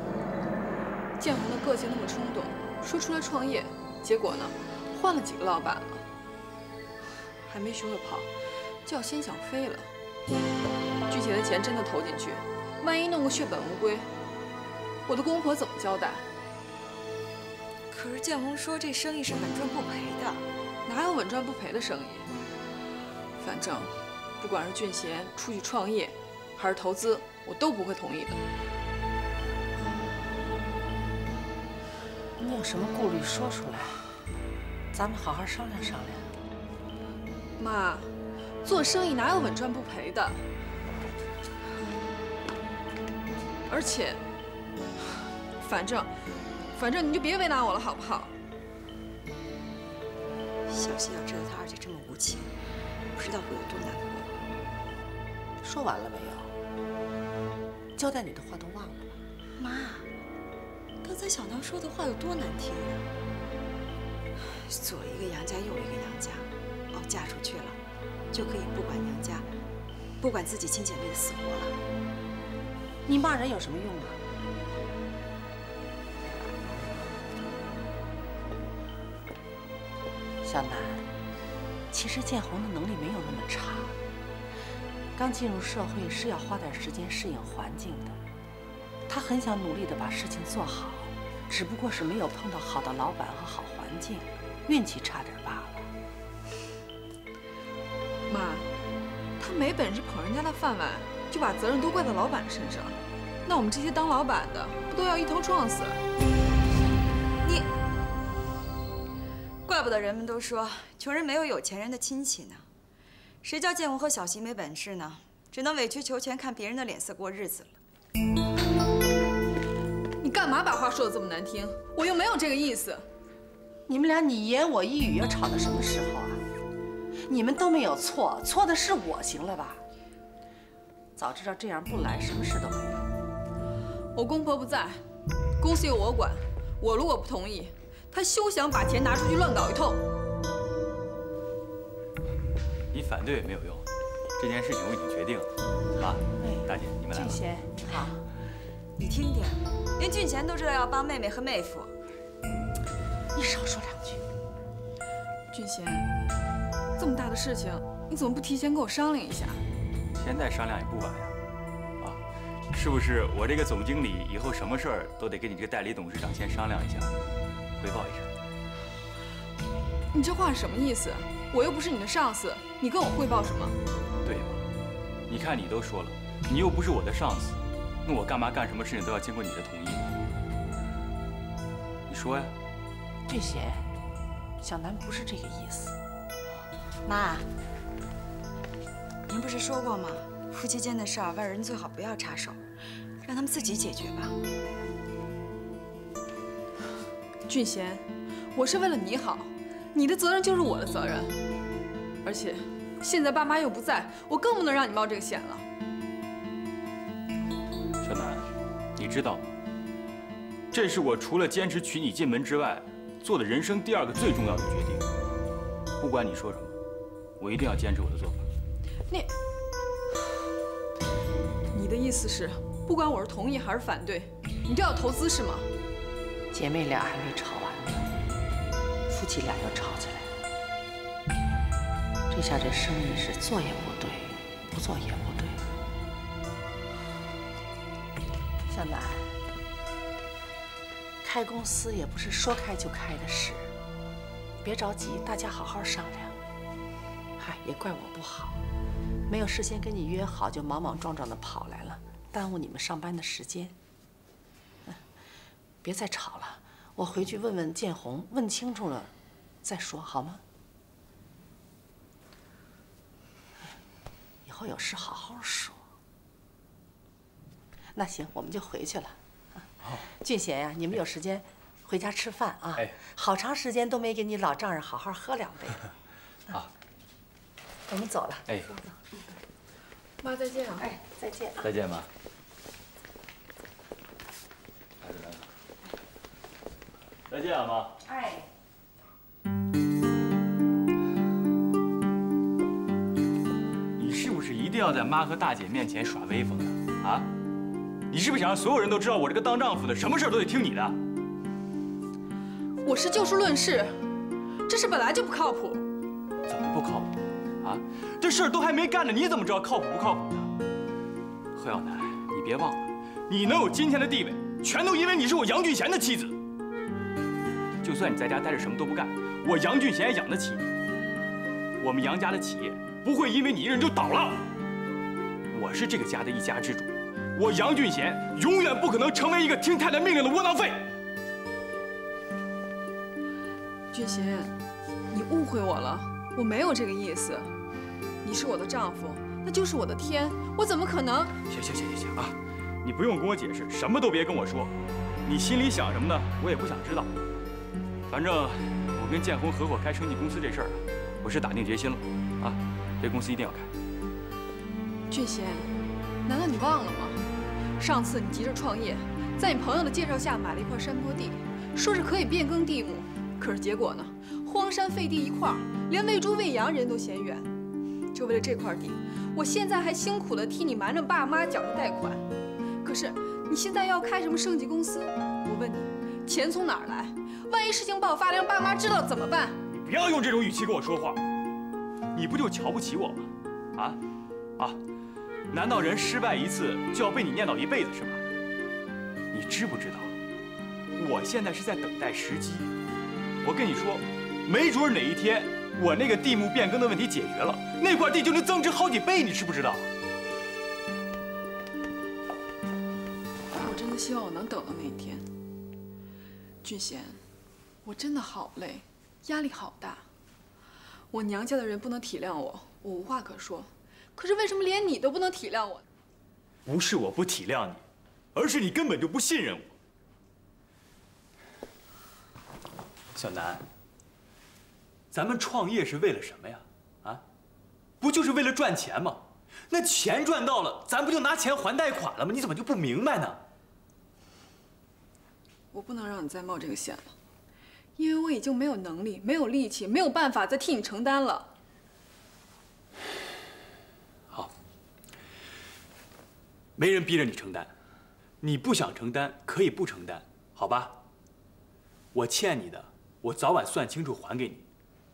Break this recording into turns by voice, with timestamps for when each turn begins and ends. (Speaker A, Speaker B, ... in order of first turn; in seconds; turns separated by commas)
Speaker A: 1.2-6.0, Speaker A: 7.5-8.0, Speaker B: 7.8-8.2, Speaker A: 8.8-9.9, Speaker A: 11.1-14.1, Speaker A: 15.1-16.2, Speaker B: 17.9-20.4, Speaker A: 20.9-22.3, Speaker A: 23.4-28.4, Speaker C: 32.4-34.0, Speaker C: 34.9-36.3, Speaker A: 37.6-38.1, Speaker A: 38.6-40.4, Speaker A: 43.7-44.2, Speaker A: 45.6-46.1, Speaker A: 46.7-48.3, Speaker B: 50.7-52.5, Speaker B: 53.1-54.3, Speaker C: 55.6-56.5, Speaker C: 58.0-59.1, Speaker B: 59.6-60.1, Speaker B: 61.0-63.1, Speaker B: 64.4-67.8, Speaker B: 68.3-69.5, Speaker B: 70.2-71.8, Speaker C: 73.0-74.2, Speaker C: 80.4-81.0, Speaker C: 81.9-83.9, Speaker C: 85.1-88.2, Speaker C: 89.1-95.9, Speaker A: 98.3-98.7, Speaker A: 99.4-106.0, Speaker B: 107.4-107.7, Speaker B: 109.6-112.7, Speaker B: 113.4-117.8, Speaker A: 120.2-123.0, Speaker C: 123.9-126.4, Speaker C: 127.3-129.8, Speaker C: 131.2-133.1, Speaker A: 134.1-135.0, Speaker A: 135.6-140.0, Speaker D: 142.9-143.8, Speaker D: 144.4-147.4, Speaker C: 146.3-148.2, Speaker B: 149.0-151.9, Speaker C: 153.3-154.2, Speaker A: 155.5-156.1, Speaker A: 157.0-159.6, Speaker D: 160.1-161.3, Speaker D: 162.0-167.1, Speaker D: 167.8-168.3, Speaker A: 170.1-173.8, Speaker D: 174.2-174.6, Speaker D: 175.3-180.1, Speaker D: 182.1-182.5, Speaker C: 183.3-183.9, Speaker C: 184.6-186.0, Speaker B: 187.1-187.5, Speaker B: 189.3-192.6, Speaker B: 193.2-194.3, Speaker A: 197.5-201.3, Speaker A: 202.2-205.6, Speaker D: 208.0-208.4, Speaker D: 208.9-209.4, Speaker D: 210.7-215.1, Speaker D: 216.0-216.7, Speaker D: 217.4-218.5, Speaker A: 221.7-225.7, Speaker C: 226.5-228.1, Speaker C: 229.1-230.3, Speaker C: 232.3-235.6, Speaker C: 238.7-239.3, Speaker C: 241.2-243.7, Speaker C: 244.6-246.3, Speaker C: 247.4-248.6, Speaker C: 249.3-253.8, Speaker C: 255.8-259.1, Speaker C: 259.6-260.4, Speaker C: 264.4-265.8, Speaker C: 267.9-275.9, Speaker C: 277.9-279.0, Speaker A: 280.2-280.8, Speaker C: 280.8-281.7, Speaker D: 281.6-282.1, Speaker D: 285.0-285.4, Speaker D: 287.3-287.9, Speaker D: 293.9-297.3, Speaker D: 298.1-301.0, Speaker A: 302.8-304.0, Speaker A: 304.7-305.8, Speaker D: 306.5-310.5, Speaker D: 311.5-316.4, Speaker D: 317.8-320.7, Speaker D: 321.8-324.4, Speaker D: 325.5-330.9, Speaker A: 333.9-334.5, Speaker A: 335.1-337.5, Speaker A: 338.2-341.4, Speaker D: 341.5-347.1, Speaker D: 348.1-353.7, Speaker A: 355.1-357.2, Speaker A: 357.8-367.5, Speaker A: 368.1-372.2, Speaker A: 372.8-379.6, Speaker D: 379.7-381.2, Speaker D: 382.1-384.0, Speaker D: 385.5-388.2, Speaker D: 389.3-390.1, Speaker D: 390.9-392.7, Speaker D: 393.4-399.9, Speaker A: 403.5-405.3, Speaker A: 406.6-407.2, Speaker A: 407.8-410.1, Speaker A: 411.1-415.8, Speaker D: 416.6-419.8, Speaker D: 423.1-423.6, Speaker D: 425.1-427.2, Speaker D: 428.0-433.4, Speaker A: 435.7-437.1, Speaker A: 438.0-441.5, Speaker D: 446.8-447.7, Speaker D: 448.4-451.0, Speaker D: 452.1-454.6